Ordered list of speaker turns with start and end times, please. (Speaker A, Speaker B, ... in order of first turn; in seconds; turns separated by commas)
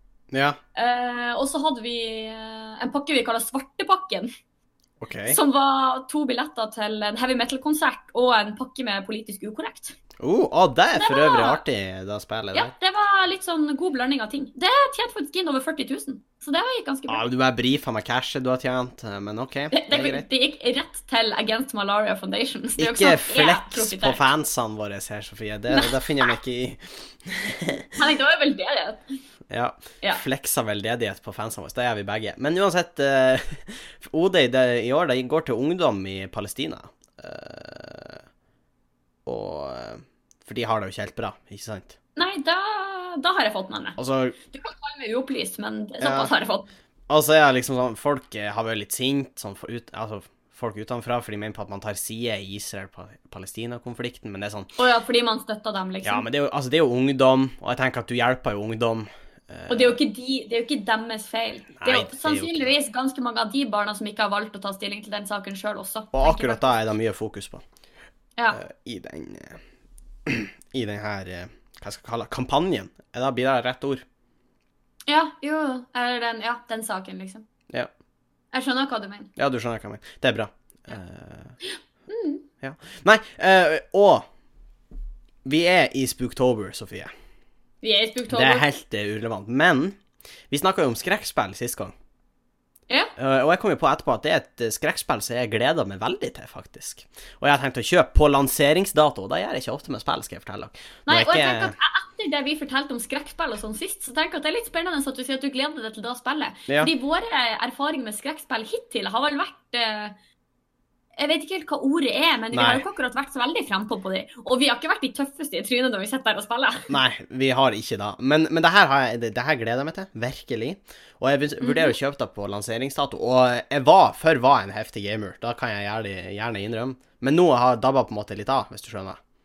Speaker A: 0.3-0.6, Speaker B: 0.7-4.3, Speaker A: 5.0-5.4, Speaker B: 5.3-10.0, Speaker A: 10.2-12.7, Speaker B: 10.9-11.6, Speaker B: 12.5-17.2, Speaker A: 17.1-20.2, Speaker B: 19.7-24.2, Speaker A: 22.8-27.9, Speaker B: 25.7-26.3, Speaker B: 27.9-29.0, Speaker A: 29.5-38.2, Speaker A: 39.2-42.0, Speaker B: 42.1-44.0, Speaker A: 44.0-44.4, Speaker B: 44.5-46.7, Speaker A: 46.0-46.3, Speaker A: 47.1-54.7, Speaker B: 54.8-56.2, Speaker A: 56.0-60.0, Speaker B: 59.7-66.8, Speaker A: 61.8-62.7, Speaker A: 66.1-67.6, Speaker A: 68.5-69.6, Speaker A: 70.2-74.0, Speaker B: 75.1-77.4, Speaker B: 78.5-79.3, Speaker A: 79.4-81.6, Speaker B: 82.1-82.4, Speaker A: 82.6-84.2, Speaker A: 85.4-87.1, Speaker B: 87.8-88.6, Speaker A: 88.3-90.0, Speaker A: 90.5-91.9, Speaker A: 93.2-101.7, Speaker B: 101.1-110.1, Speaker B: 111.2-116.9, Speaker A: 112.5-112.8, Speaker A: 116.9-129.2, Speaker B: 121.6-122.0